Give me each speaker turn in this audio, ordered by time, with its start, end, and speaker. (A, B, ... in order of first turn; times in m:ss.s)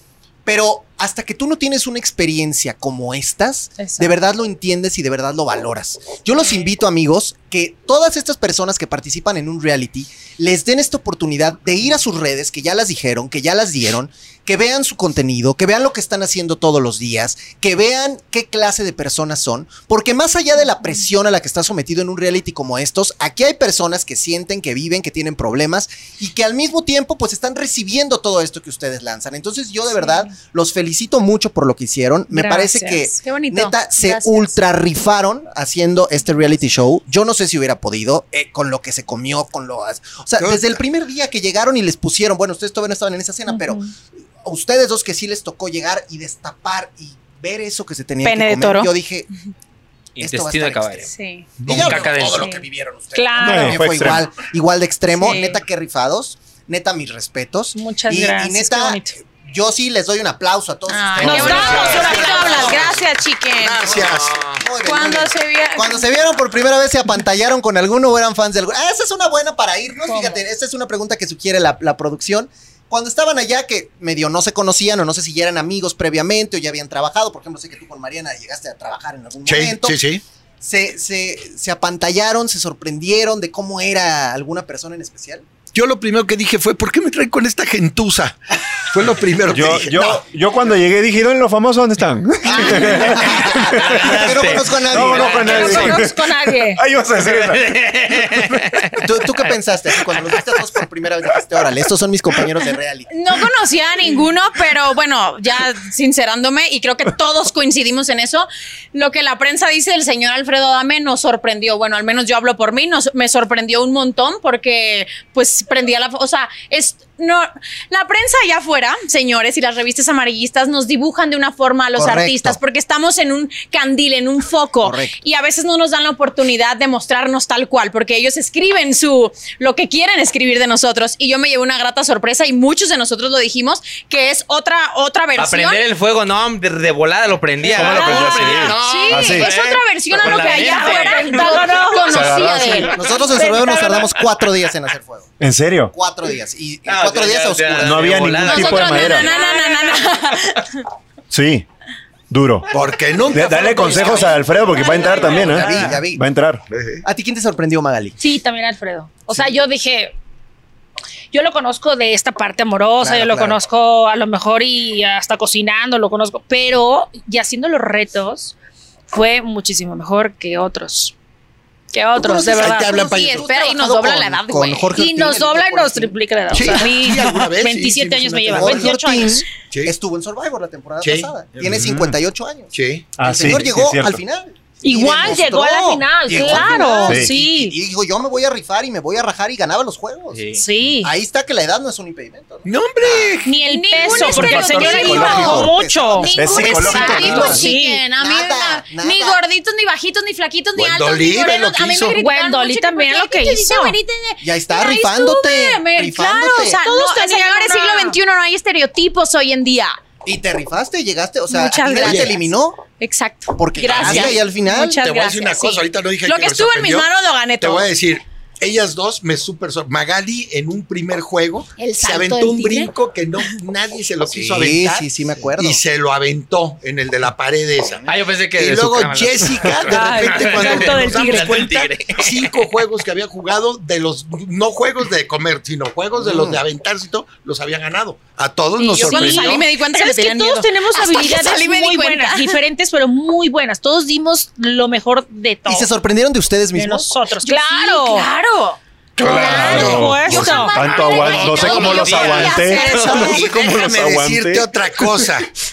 0:00.4-0:43.8 A
0:03.8-0:04.1 B
0:32.3-0:33.0 B
0:33.2-0:34.6 C
0:40.4-0:40.8 D
0:43.5-0:43.9 B
0:44.4-0:49.3 A
0:48.2-0:48.9 C
0:50.2-0:51.1 E
0:50.2-0:51.1 A
0:51.1-0:51.5 B
0:51.6-0:53.2 D
0:51.6-0:52.4 E
0:51.6-0:52.6 A
0:53.1-0:53.8 B
0:53.1-1:02.9 A
0:53.4-0:54.3 F
0:55.2-0:55.6 C
0:57.7-0:59.2 B
1:00.9-1:04.0 C
1:01.2-1:01.6 F
1:01.2-1:03.0 B
1:01.3-1:02.6 D
1:03.6-1:04.4 D
1:03.9-1:04.6 E
1:04.5-1:20.0 A
1:04.8-1:06.0 C
1:10.1-1:10.4 B
1:19.4-1:20.2 D
1:20.6-1:25.4 A
1:25.7-1:28.4 D
1:28.9-1:30.2 D
1:29.5-1:39.0 F
1:32.4-1:36.0 A
1:32.7-1:35.7 E
1:35.3-1:36.8 B
1:37.2-1:39.0 E
1:39.0-1:43.1 A
1:43.1-2:15.8 C
2:02.0-2:02.6 A
2:04.8-2:05.2 A
2:15.4-2:22.0 E
2:17.6-2:18.8 B
2:17.7-2:19.5 F
2:18.7-2:22.9 C
2:20.2-2:24.2 B
2:22.1-2:22.9 F
2:22.9-2:25.3 A
2:25.4-2:25.9 F
2:25.9-2:28.2 A
2:26.8-2:29.1 E
2:27.8-2:29.3 F
2:28.4-2:30.8 C
2:28.8-2:30.4 B
2:31.3-2:31.6 F
2:32.3-2:32.7 F
2:32.7-2:34.3 D
2:33.3-2:36.6 F
2:33.3-2:36.2 A
2:34.8-2:35.4 B
2:35.4-2:35.9 E
2:36.7-2:37.0 D
2:37.0-2:38.2 A
2:38.2-2:40.1 B
2:41.3-2:48.5 B
2:43.0-2:43.6 A
2:49.1-2:51.1 B
2:51.9-2:53.2 B
2:52.2-2:56.1 A
2:52.5-2:53.5 D
2:53.0-2:54.9 C
2:54.9-2:59.4 B
2:56.5-2:58.9 D
2:58.5-3:13.4 A
3:01.0-3:01.8 D
3:01.6-3:02.2 F
3:02.7-3:03.2 D
3:03.2-3:04.2 F
3:04.8-3:07.8 B
3:06.5-3:07.3 F
3:10.3-3:10.6 E
3:10.5-3:11.1 B
3:12.6-3:13.5 D
3:13.4-3:18.0 B
3:13.6-3:15.6 C
3:14.2-3:15.8 F
3:14.5-3:19.4 A
3:16.1-3:30.0 C
3:16.3-3:17.6 F
3:20.7-3:22.2 D
3:22.1-3:24.0 B
3:24.4-3:26.8 A
3:26.8-3:28.2 B
3:30.2-3:32.8 A
3:31.5-3:32.4 B
3:32.0-3:32.3 D
3:33.0-3:37.9 C
3:33.6-3:35.0 A
3:34.0-3:34.4 D
3:34.1-3:35.7 B
3:35.0-3:37.1 D
3:37.6-3:59.6 D
3:41.8-3:43.5 C
3:44.4-3:45.8 A
3:48.1-3:52.6 E
3:49.8-3:51.9 B
3:56.2-3:56.6 A
3:58.8-4:05.9 B
3:58.9-4:02.6 C
4:05.6-4:07.2 A
4:06.7-4:08.3 B
4:07.4-4:13.5 C
4:09.2-4:15.3 F
4:09.2-4:10.1 D
4:09.3-4:12.8 B
4:12.1-4:13.5 A
4:12.9-4:15.5 D